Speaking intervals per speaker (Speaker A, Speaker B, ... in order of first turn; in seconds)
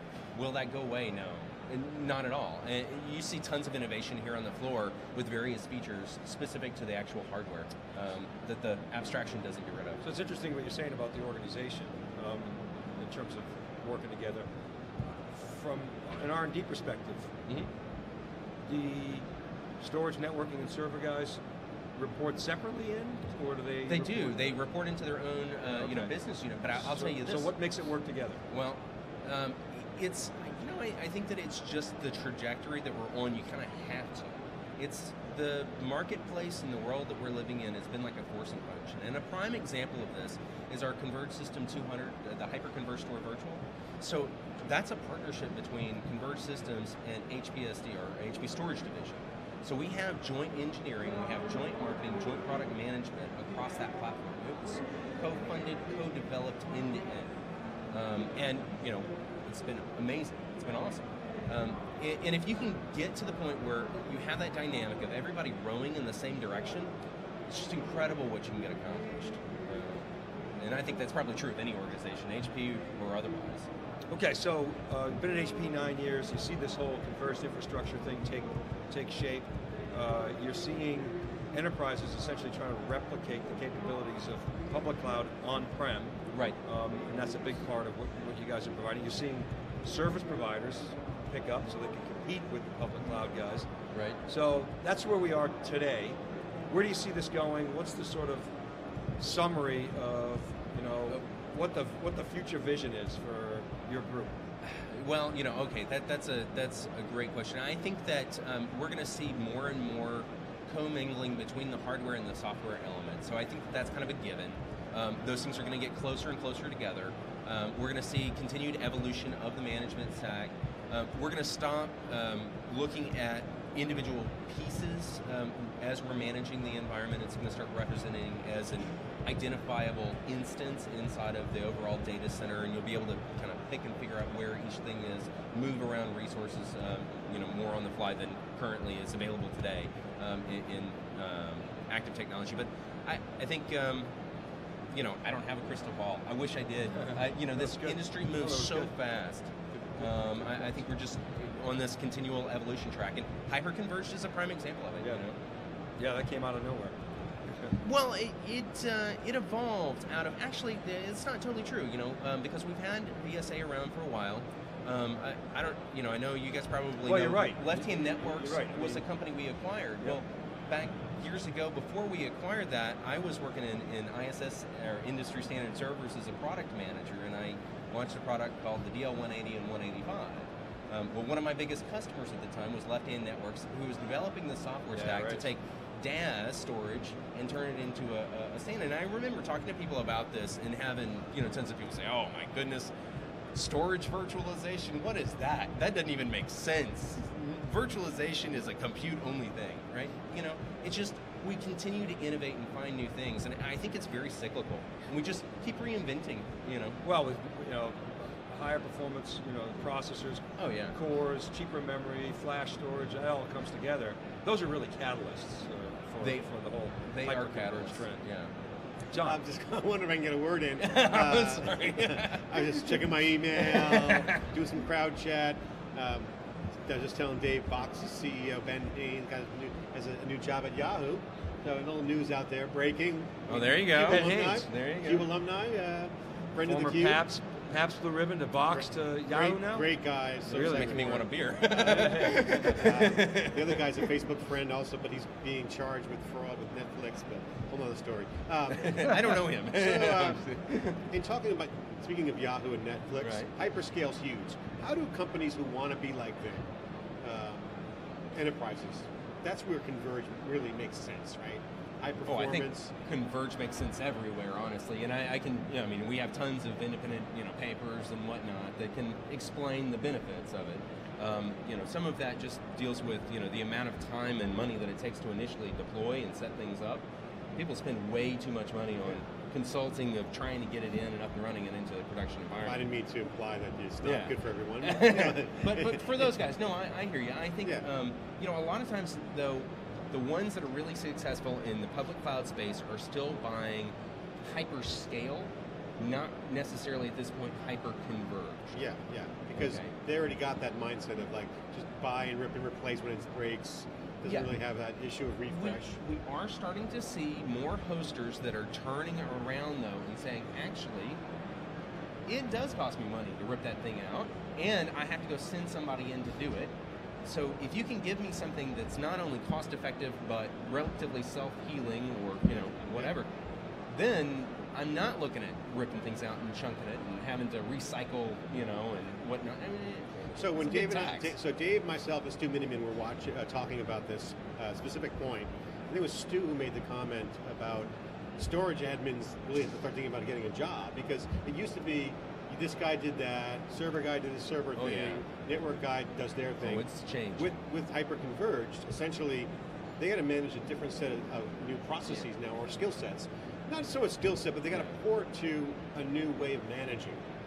Speaker A: 0.3-10.0, 23.9-27.5, 28.5-57.3, 57.9-66.9, 67.5-73.7, 86.3-86.6, 93.9-94.2, 104.6-144.1, 144.9-155.4, 157.8-192.9, 193.5-207.0, 210.6-211.0, 217.0-218.5, 220.8-224.5, 233.5-235.3, 240.5-244.0, 248.7-251.0, 253.2-253.5, 262.2-282.8, 284.0-298.8, 299.5-299.9, 304.2-304.5, 305.5-311.2, 312.3-323.3, 323.9-331.3, 344.8-345.2, 346.6-347.6
Speaker B: 10.0-14.5, 15.3-17.3, 18.7-19.2, 19.8-21.4, 21.9-24.4, 25.7-26.1, 26.8-28.4, 74.1-93.7, 94.2-96.2, 96.7-98.5, 99.2-104.3, 147.0-148.9, 155.0-155.2, 156.0-157.8, 167.0-169.0, 184.9-185.5, 207.0-218.2, 219.1-219.4, 233.9-234.7, 236.6-239.9, 240.4-241.2, 241.8-242.8
Speaker C: 219.2-226.3, 226.8-237.2, 238.7-250.5, 251.0-256.7, 257.2-257.7, 258.3-262.9, 282.6-286.2, 298.7-306.0, 322.8-323.1, 330.4-346.8, 347.4-357.2